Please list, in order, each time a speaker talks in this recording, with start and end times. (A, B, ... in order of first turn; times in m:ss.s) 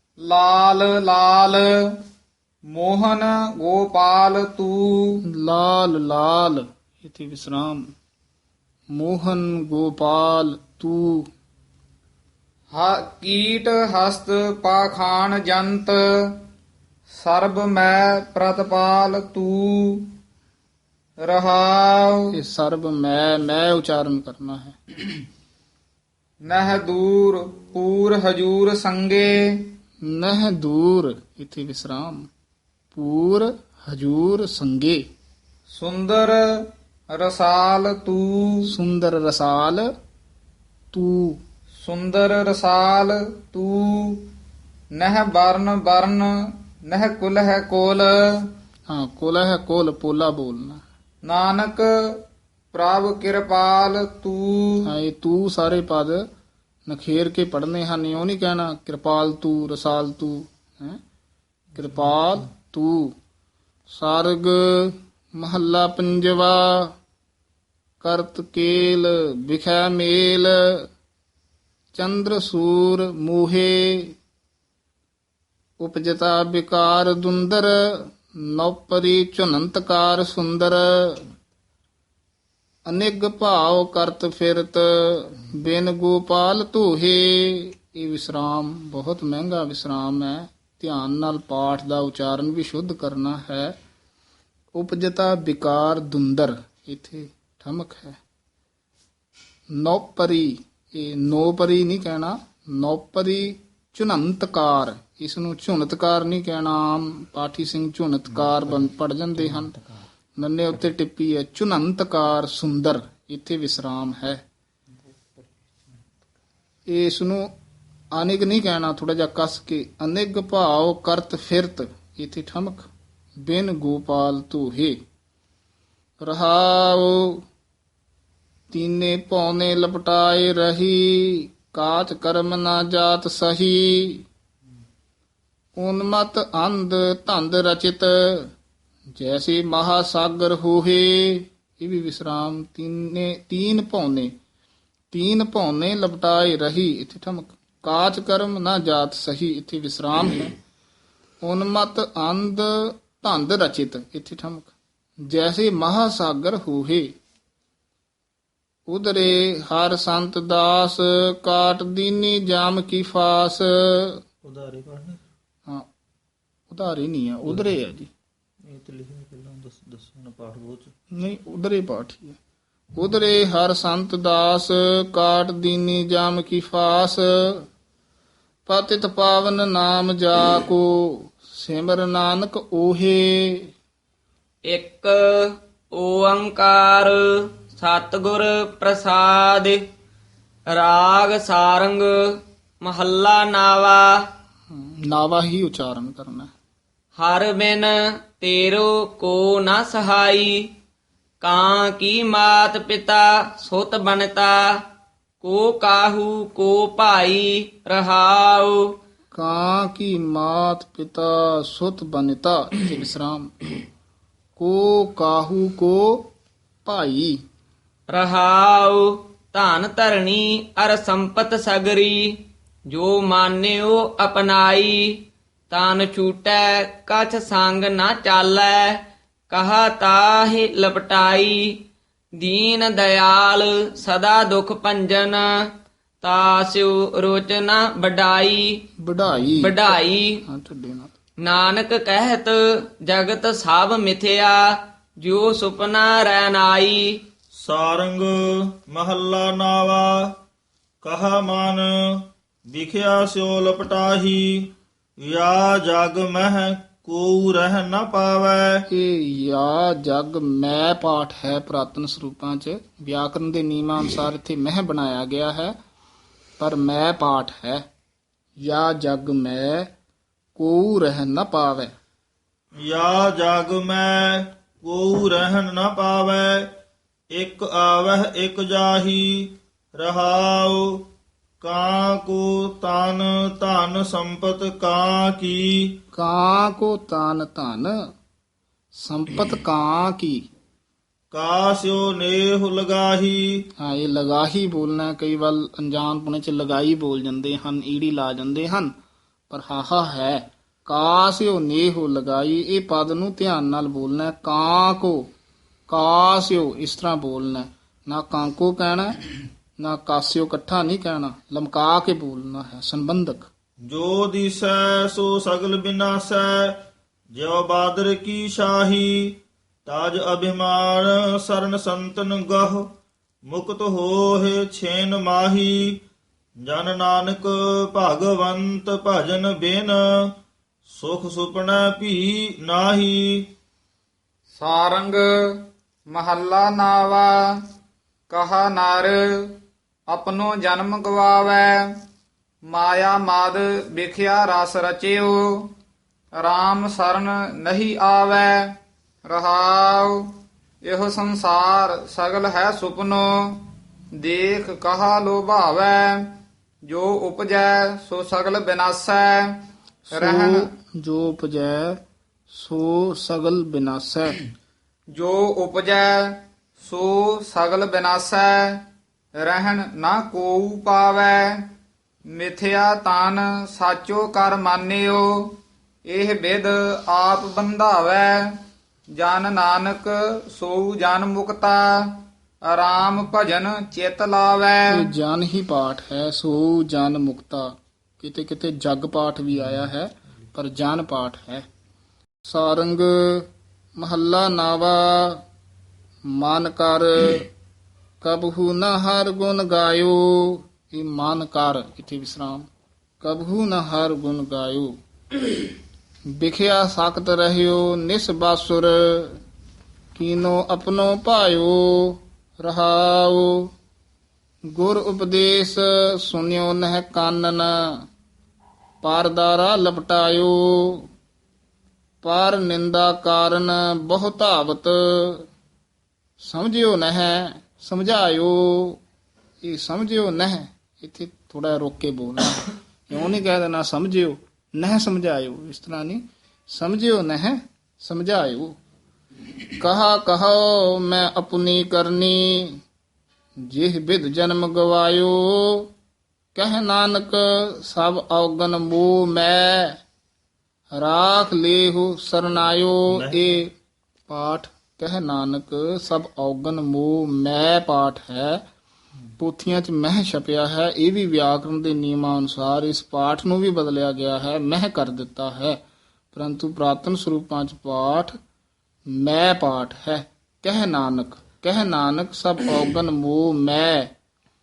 0:00.2-0:01.7 A
0:02.7-0:05.2 A
0:05.3-0:07.9 B
0:08.9-0:11.3 B
0:12.7-0:16.4 A
0:17.1-0:20.1 A
0:21.2-0:22.2 A
0:22.3-0:24.8 B
0:26.4-0:29.7 A
0:30.0-0:32.3 B
0:32.9-0:35.0 B
0:35.7-0:36.4 A
0:37.1-0:38.6 A
0:38.6-0:39.9 B
0:40.9-0:41.4 B
0:41.8-0:44.3 A
0:44.9-0:46.3 A
0:46.8-0:48.4 A
0:48.9-0:50.8 B
0:51.2-0:51.9 A
0:52.7-0:54.9 A
0:54.8-0:56.2 B
0:56.9-1:01.0 B
1:01.8-1:03.1 B
1:03.9-1:06.9 B
1:08.0-1:10.9 B
1:11.9-1:14.1 B
1:15.8-1:21.3 B
1:22.8-1:33.8 B
1:34.7-1:38.2 B
1:39.7-1:49.8 B
1:50.4-1:54.4 B
1:56.9-1:57.5 B
1:58.1-2:02.9 B
2:03.4-2:05.0 B
2:06.2-2:07.4 B
2:08.7-2:14.2 B
2:15.7-2:18.5 B
2:19.2-2:24.3 B
2:25.1-2:30.6 B
2:31.4-2:34.7 B
2:35.3-2:37.1 B
2:38.9-2:44.2 B
2:44.4-2:45.2 C
2:46.7-2:48.1 B
2:48.6-2:50.9 C
2:51.1-2:52.4 B
2:52.9-2:57.6 B
2:58.7-3:03.7 B
3:04.7-3:09.8 D
3:10.7-3:14.2 D
3:14.7-3:16.5 B
3:17.2-3:20.7 D
3:21.4-3:24.8 D
3:25.4-3:28.8 D
3:29.3-3:33.5 B
3:34.6-3:36.3 B
3:36.8-3:37.4 B
3:38.1-3:51.8 D
3:52.4-3:55.5 D
3:56.2-3:58.8 D
3:59.0-4:01.1 B
3:59.6-4:00.4 D
4:01.4-4:07.2 D
4:07.6-4:10.3 C
4:11.0-4:18.8 C
4:18.9-4:25.8 B
4:26.6-4:27.8 B
4:28.6-4:29.9 B
4:30.6-4:31.9 B
4:32.8-4:36.7 C
4:37.3-4:41.0 C
4:41.6-4:46.0 C
4:46.1-4:48.0 B
4:48.9-4:50.5 B
4:51.3-4:53.4 C
4:53.8-4:58.9 B
4:59.5-5:05.3 B
5:05.9-5:09.2 B
5:09.8-5:13.5 B
5:13.8-5:16.8 C
5:17.3-5:22.8 C
5:23.5-5:26.0 C
5:26.6-5:30.3 C
5:30.9-5:33.5 C
5:34.6-5:37.4 A
5:38.3-5:41.8 A
5:42.7-5:45.7 A
5:46.4-5:50.2 A
5:50.8-6:00.7 A
6:00.1-6:04.4 B
6:05.1-6:08.8 A
6:09.4-6:11.7 A
6:12.3-6:18.6 A
6:19.1-6:25.0 A
6:24.9-6:31.6 B
6:32.4-6:35.4 B
6:36.3-6:37.5 B
6:38.2-6:42.7 B
6:43.2-6:44.9 B
6:46.4-6:49.4 B
6:50.1-6:53.7 B
6:54.7-6:58.0 B
6:59.0-7:01.1 B
7:02.2-7:05.5 B
7:06.4-7:09.0 B
7:09.6-7:18.8 B
7:19.8-7:22.8 B
7:23.7-7:25.9 B
7:26.5-7:30.0 B
7:30.9-7:33.7 B
7:33.1-7:33.4 C
7:34.3-7:38.6 B
7:39.4-7:45.8 B
7:46.3-7:48.3 B
7:49.1-7:54.1 B